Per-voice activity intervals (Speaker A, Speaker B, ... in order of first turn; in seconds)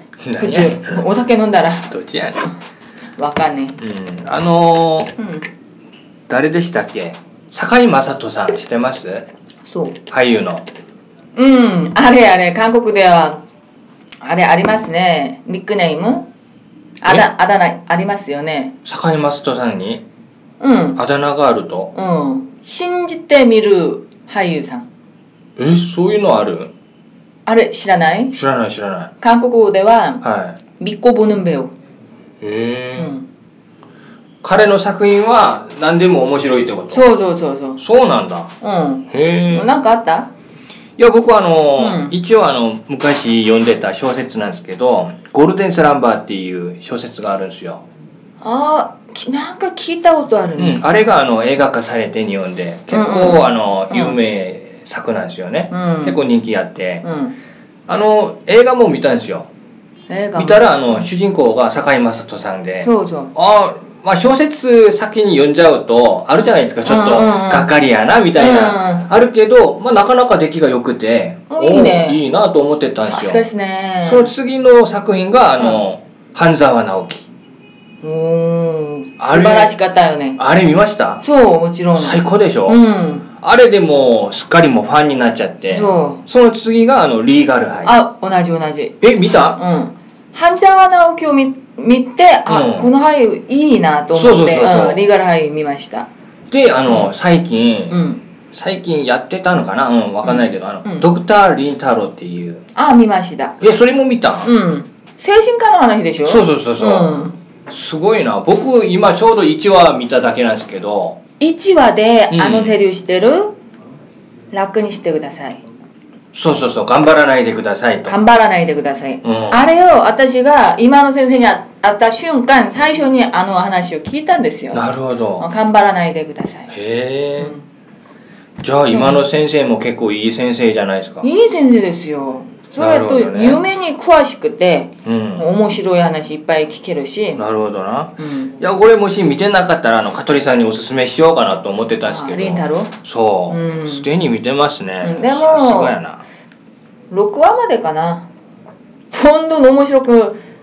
Speaker A: 0.2-1.0, 1.9-2.5, 3.8-5.1, 6.3-9.3, 10.1-10.7, 18.8-20.0, 20.9-21.9, 25.6-26.7, 28.3-29.1, 30.2-30.6, 32.4-33.1, 34.4-37.0, 37.8-38.5, 39.1-39.7, 41.0-47.8, 50.6-57.0, 57.9-59.5, 60.4-73.5, 74.0-77.3, 79.2-79.7, 80.4-81.2, 81.9-82.8, 83.4-88.0, 89.0-89.6, 92.5-92.9, 94.1-95.0, 96.5-102.6, 103.6-104.5, 106.2-111.2, 112.3-112.8, 116.3-118.2, 119.2-119.7, 124.7-125.4, 126.7-127.5, 128.6-131.3, 132.8-133.6, 135.0-135.5, 137.3-146.2
Speaker B: 0.4-1.9, 3.2-3.8, 5.2-5.5, 9.7-10.0, 11.3-13.4, 14.2-16.2, 17.0-18.7, 20.6-21.0, 21.9-24.9, 27.4-28.4, 29.2-30.2, 30.8-31.7, 33.0-33.3, 36.9-37.8, 38.6-40.3, 41.8-42.1, 48.4-50.9, 52.9-54.2, 55.7-56.2, 57.0-57.3, 60.1-61.0, 62.8-63.3, 66.8-67.7, 68.3-69.0, 71.5-72.2, 73.0-74.3, 78.0-80.4, 81.2-83.3, 85.7-86.2, 87.8-89.0, 89.5-96.1, 97.9-98.2, 100.2-101.1, 102.7-103.6, 104.4-107.4, 111.4-113.6, 114.5-115.6, 118.1-124.8, 125.4-126.7, 127.4-127.6, 128.9-129.2, 131.2-137.4, 138.2-138.5, 142.0-142.9, 143.5-144.1, 145.0-146.0, 147.1-148.3, 149.1-150.4